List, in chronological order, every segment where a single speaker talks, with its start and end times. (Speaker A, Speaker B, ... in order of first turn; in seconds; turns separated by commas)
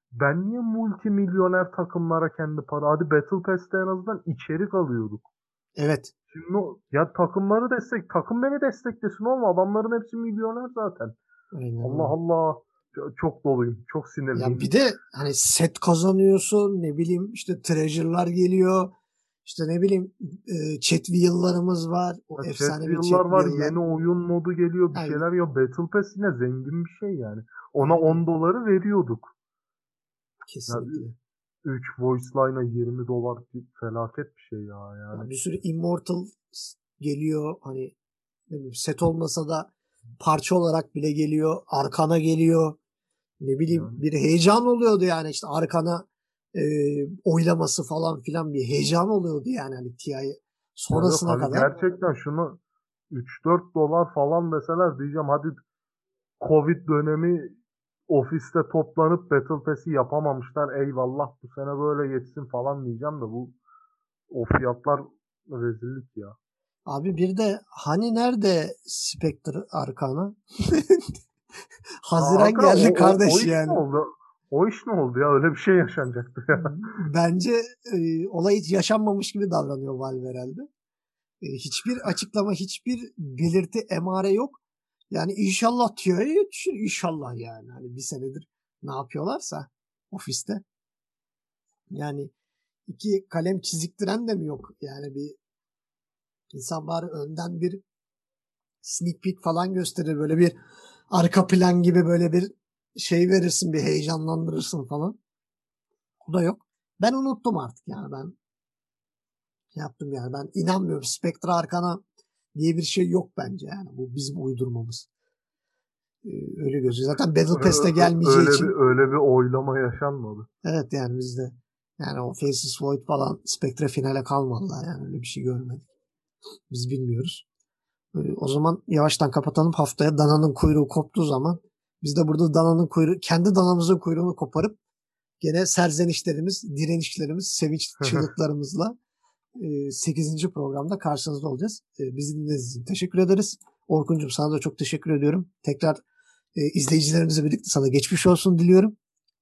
Speaker A: 0.2-5.2, Speaker B: 5.8-6.1, Speaker A: 6.3-11.1, Speaker B: 11.5-12.1, Speaker A: 11.8-14.7, Speaker B: 14.3-18.9, Speaker B: 19.4-23.8, Speaker A: 22.4-29.3, Speaker B: 24.9-25.2, Speaker B: 27.8-28.2, Speaker B: 30.5-31.2, Speaker A: 30.7-31.0, Speaker A: 31.6-35.3, Speaker B: 35.1-37.9, Speaker B: 38.5-42.8, Speaker B: 43.4-51.7, Speaker A: 43.7-44.0, Speaker A: 50.9-52.6, Speaker A: 53.1-55.5, Speaker A: 56.4-57.5, Speaker A: 58.1-63.5, Speaker A: 64.3-66.3, Speaker B: 66.9-71.0, Speaker B: 72.0-73.8, Speaker A: 72.2-76.7, Speaker B: 76.5-80.7, Speaker B: 81.4-84.6, Speaker B: 85.1-90.6, Speaker B: 91.9-92.3, Speaker B: 92.9-95.4, Speaker B: 96.5-97.8, Speaker B: 98.8-100.5, Speaker B: 101.1-105.2, Speaker B: 106.2-108.3, Speaker B: 109.7-112.0, Speaker B: 112.5-115.1, Speaker B: 116.2-118.7, Speaker A: 117.5-120.5, Speaker B: 120.6-125.9, Speaker B: 126.7-127.4, Speaker B: 128.1-134.8, Speaker B: 135.4-138.9, Speaker A: 138.0-138.3, Speaker B: 139.6-146.0, Speaker B: 146.6-148.9